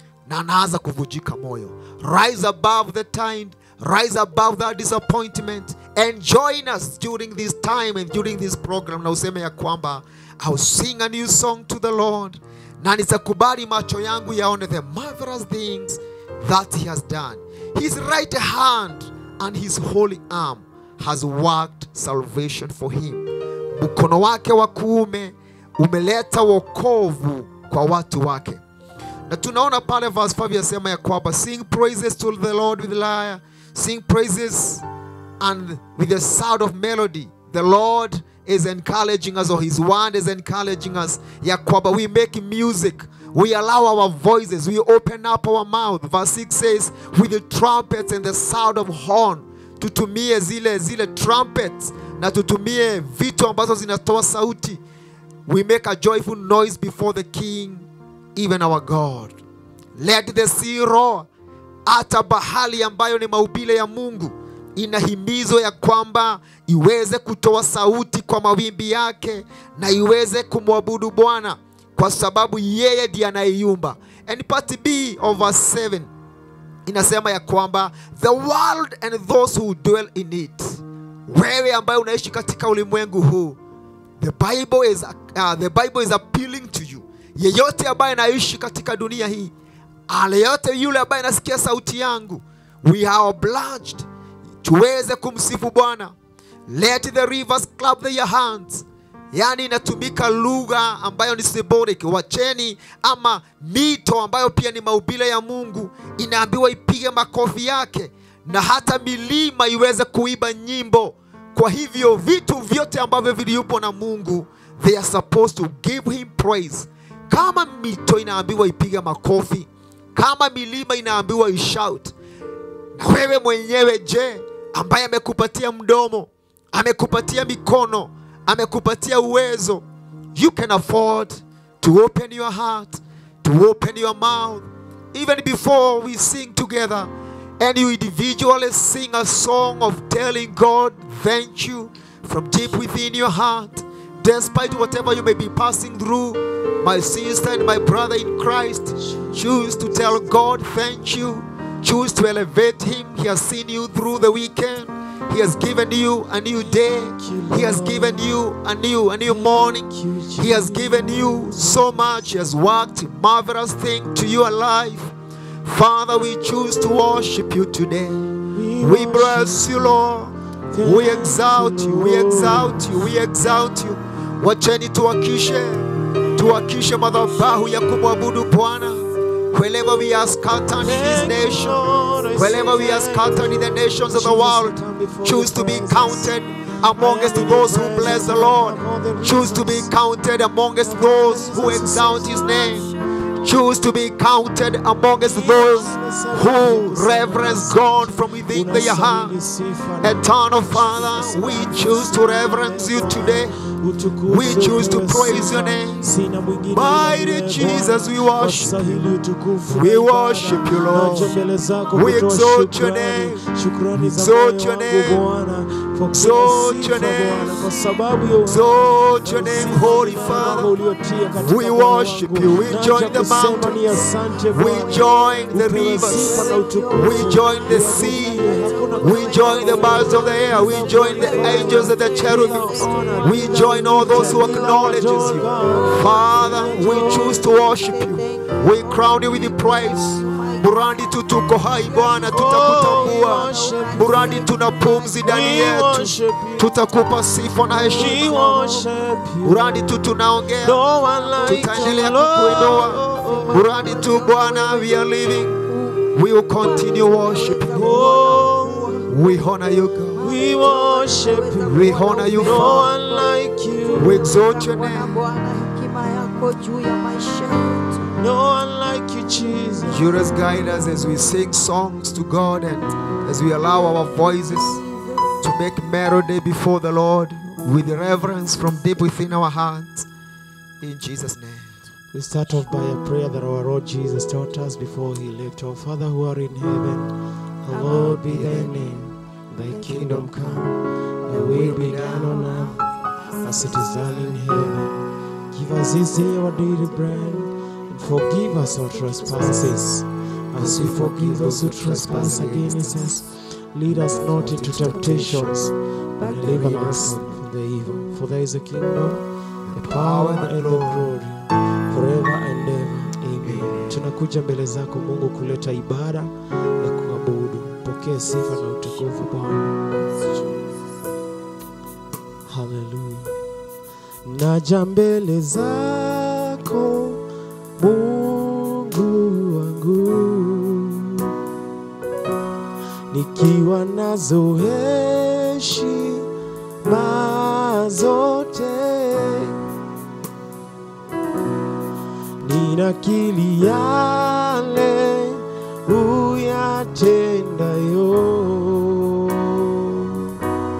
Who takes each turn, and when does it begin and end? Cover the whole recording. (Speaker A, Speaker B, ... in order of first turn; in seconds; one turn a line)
Speaker A: 0.3-28.6
Speaker A: 29.3-34.8
Speaker A: 35.4-54.8
Speaker A: 55.5-59.4
Speaker A: 60.0-61.3
Speaker A: 61.9-76.1
Speaker A: 76.8-83.6
Speaker A: 84.2-89.5
Speaker A: 90.1-94.1
Speaker A: 94.6-96.1
Speaker A: 96.7-122.1
Speaker A: 123.0-129.8
Speaker A: 130.3-165.1
Speaker B: 149.0-149.5
Speaker B: 156.7-158.3
Speaker B: 159.2-162.0
Speaker A: 165.6-168.2
Speaker B: 168.5-170.0
Speaker A: 168.8-181.8
Speaker B: 170.7-173.1
Speaker B: 180.8-186.4
Speaker A: 182.3-192.9
Speaker B: 186.9-189.9
Speaker B: 190.8-192.6
Speaker A: 193.4-199.3
Speaker B: 195.2-237.4
Speaker A: 200.0-203.6
Speaker A: 204.2-206.1
Speaker A: 206.7-209.1
Speaker A: 209.6-211.3
Speaker A: 211.9-213.4
Speaker A: 213.9-215.2
Speaker A: 216.1-217.7
Speaker A: 218.4-220.7
Speaker A: 221.4-248.3
Speaker C: 224.7-225.4
Speaker C: 226.0-241.1
Speaker C: 241.6-245.8
Speaker B: 242.3-244.4
Speaker B: 245.2-246.7
Speaker C: 247.0-249.1
Speaker B: 247.9-249.8
Speaker A: 249.4-250.8
Speaker B: 250.6-253.6
Speaker C: 251.3-259.1
Speaker A: 251.4-255.6
Speaker A: 256.1-258.0
Speaker B: 257.7-258.9
Speaker A: 259.1-260.2
Speaker C: 260.1-268.1
Speaker B: 260.2-264.3
Speaker A: 261.6-262.9
Speaker A: 263.9-265.2
Speaker B: 268.1-270.1
Speaker A: 269.9-274.8
Speaker C: 274.8-275.3
Speaker A: 275.4-280.1
Speaker A: 280.8-281.8
Speaker B: 282.1-287.1
Speaker B: 287.6-290.7
Speaker A: 287.7-289.0
Speaker A: 289.7-290.6
Speaker B: 291.2-292.8
Speaker A: 291.3-292.8
Speaker B: 293.4-295.0
Speaker A: 293.8-294.8
Speaker B: 295.5-319.8
Speaker C: 296.6-297.5
Speaker C: 298.0-299.8
Speaker A: 300.6-303.2
Speaker A: 303.9-307.4
Speaker A: 309.6-311.1
Speaker A: 313.4-314.0
Speaker B: 322.5-323.3
Speaker B: 324.2-327.2
Speaker B: 327.8-331.3
Speaker B: 333.1-336.3
Speaker B: 336.8-339.6
Speaker B: 342.4-350.3